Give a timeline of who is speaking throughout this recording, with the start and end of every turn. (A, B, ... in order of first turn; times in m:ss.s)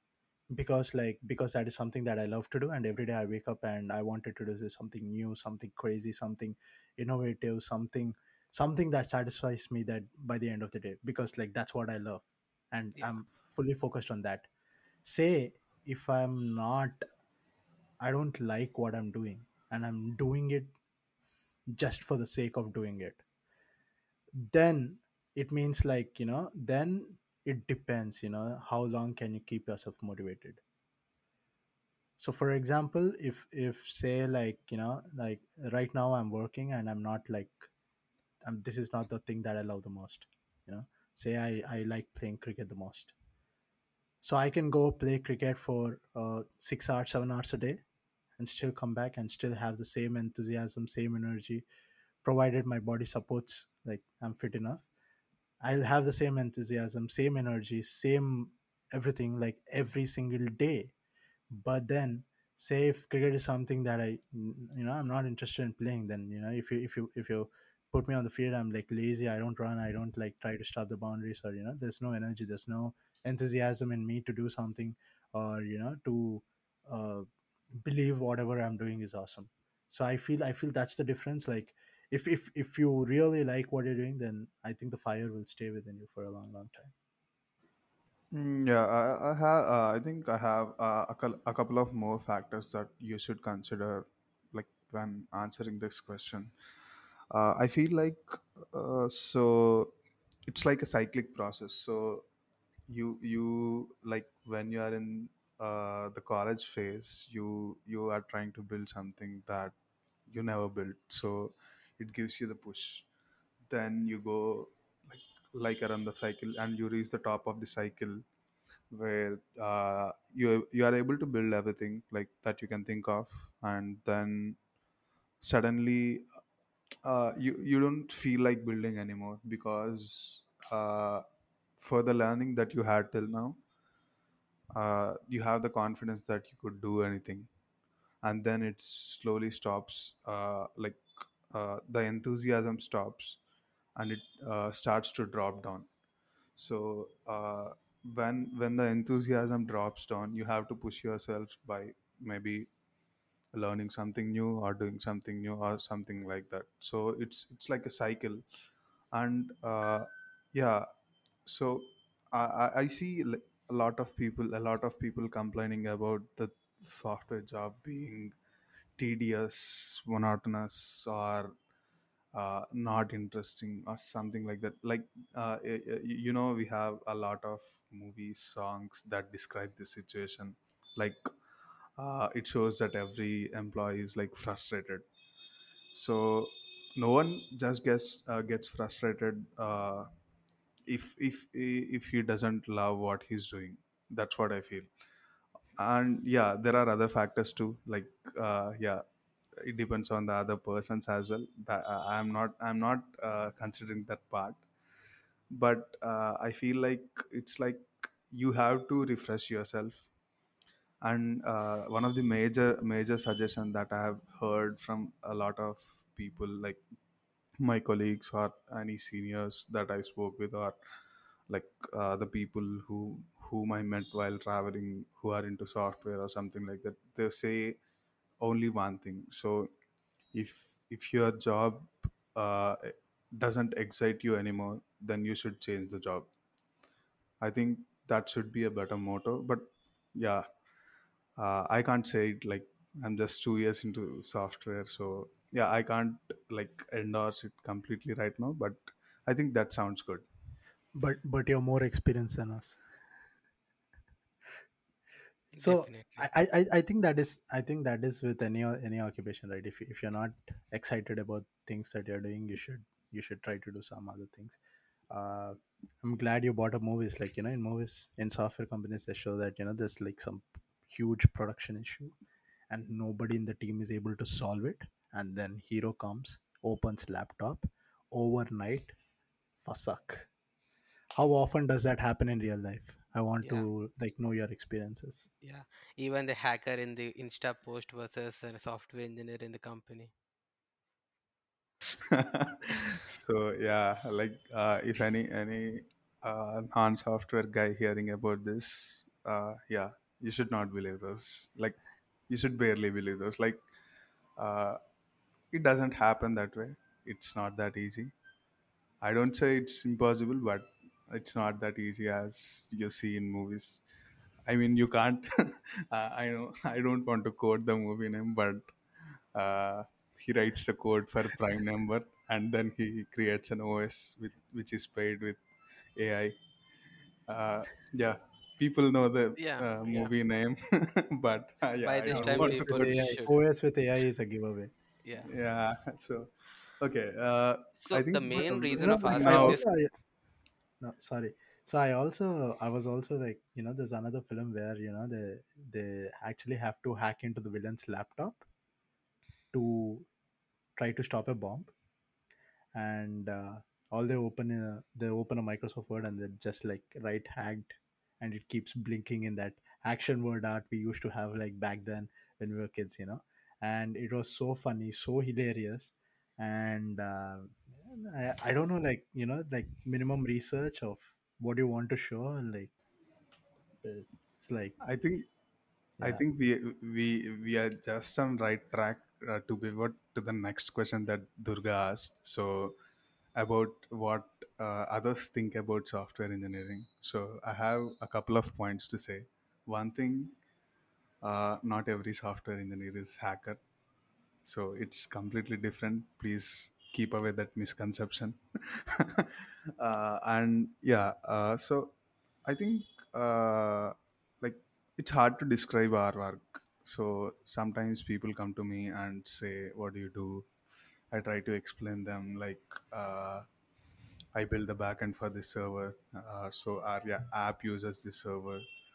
0:00.5-0:14.5 A
0:15.0-0:17.0 A
0:18.0-0:20.7 A
0:21.7-0:23.2 A
0:24.3-0:30.6 A
0:32.2-0:37.7 A
0:38.4-0:43.1 A
0:44.2-0:47.8 A
0:48.4-0:51.6 A
0:52.2-0:54.9 A
0:55.6-1:00.9 A
1:01.5-1:17.2 A
1:17.8-1:26.9 A
1:28.3-1:36.5 B
1:37.3-1:39.9 B
1:40.5-1:42.2 B
1:42.9-1:49.7 B
1:50.3-1:53.0 B
1:53.7-1:58.2 B
1:58.9-2:04.6 B
2:05.4-2:06.3 B
2:07.0-2:11.2 B
2:11.8-2:13.6 B
2:14.7-2:17.5 B
2:18.2-2:23.4 B
2:24.0-2:25.9 B
2:26.6-2:32.7 B
2:33.5-2:38.4 B
2:39.1-2:40.9 B
2:41.4-2:48.3 B
2:49.0-2:51.5 B
2:52.3-3:01.3 B
3:02.0-3:05.0 B
3:05.9-3:10.1 B
3:10.9-3:14.9 B
3:15.8-3:19.0 B
3:19.6-3:24.6 B
3:25.5-3:30.1 B
3:31.0-3:36.8 B
3:37.6-3:40.8 B
3:41.5-3:47.8 B
3:48.4-3:49.7 B
3:50.3-3:56.3 B
3:57.4-4:00.4 B
4:01.4-4:10.3 B
4:10.9-4:12.8 A
4:15.5-4:16.3 C
4:15.6-4:24.6 A
4:25.1-4:32.2 A
4:32.7-4:39.0 A
4:39.6-4:40.3 A
4:41.1-4:45.3 A
4:43.4-4:43.7 C
4:45.4-4:50.1 C
4:52.1-5:01.8 B
5:02.3-5:03.6 B
5:04.4-5:04.8 B
5:05.5-5:08.1 B
5:09.0-5:13.8 B
5:14.5-5:18.7 B
5:19.3-5:25.4 B
5:26.0-5:26.4 B
5:27.3-5:33.2 B
5:29.4-5:30.1 C
5:31.8-5:33.4 C
5:32.1-5:34.7 A
5:35.0-5:35.3 C
5:35.2-5:39.6 B
5:37.8-5:39.7 C
5:38.8-5:39.9 A
5:40.8-5:48.4 A
5:49.5-5:50.0 A
5:50.8-5:51.7 A
5:52.7-6:12.7 A
6:13.8-6:14.8 A
6:14.8-6:15.3 B
6:16.0-6:16.2 A
6:16.0-6:22.8 B
6:23.3-6:30.3 B
6:31.2-6:33.6 B
6:34.4-6:41.9 B
6:42.4-6:50.5 B
6:51.1-6:53.4 B
6:54.3-6:58.6 B